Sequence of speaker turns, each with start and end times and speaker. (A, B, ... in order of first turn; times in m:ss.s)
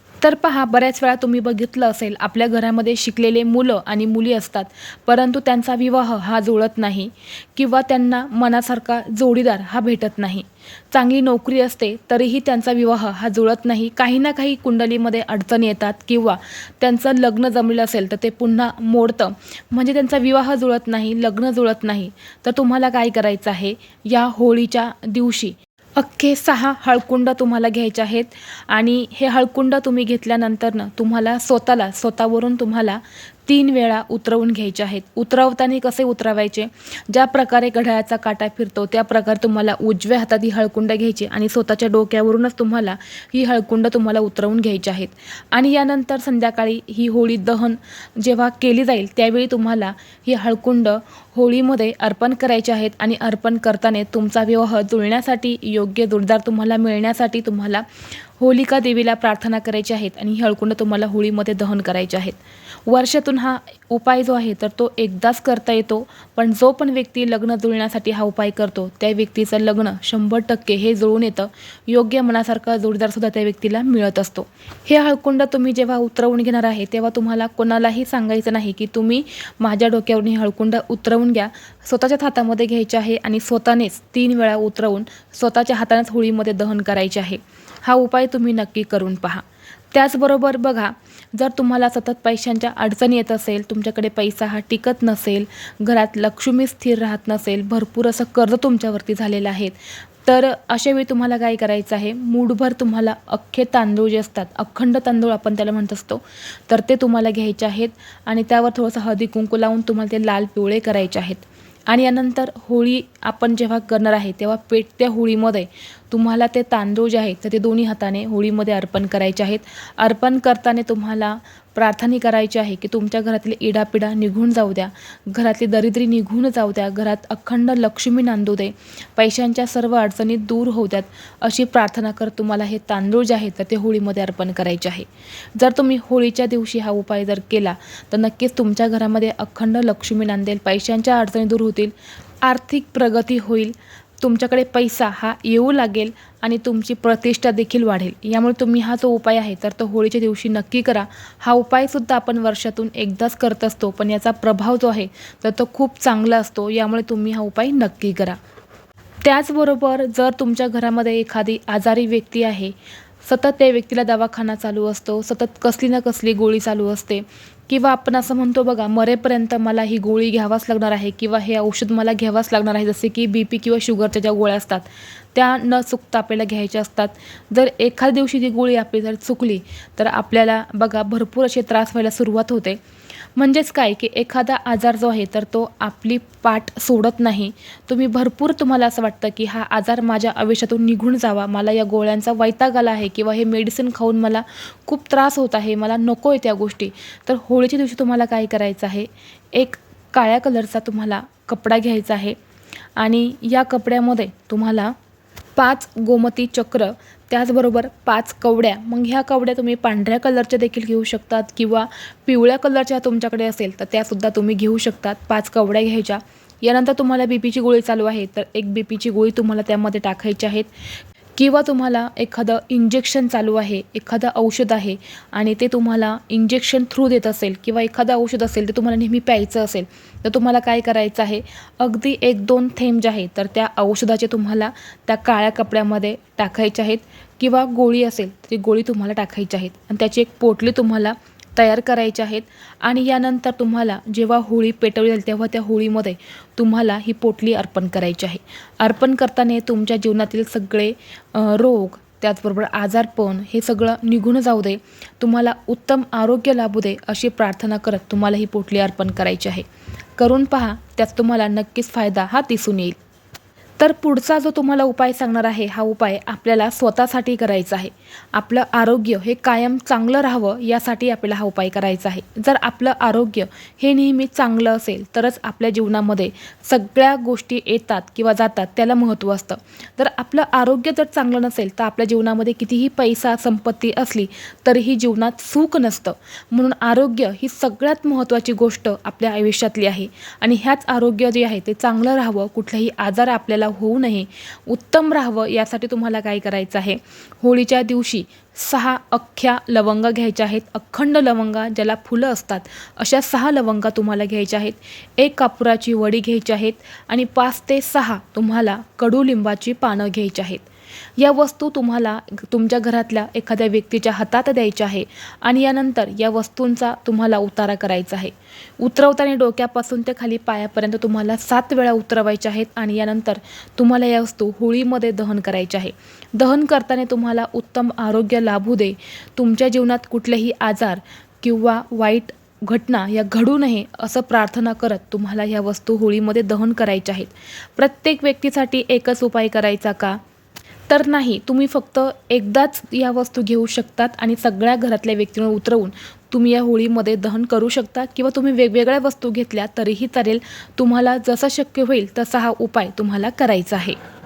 0:00.2-0:57.8 A
0:58.4-2:38.4 A
2:39.2-3:02.8 A
3:03.4-3:22.4 A
3:23.0-3:24.9 A
3:25.6-3:40.7 A
3:41.4-4:19.6 A
4:20.2-4:23.0 A
4:23.8-5:10.6 A
5:11.2-5:40.2 A
5:40.9-5:54.0 A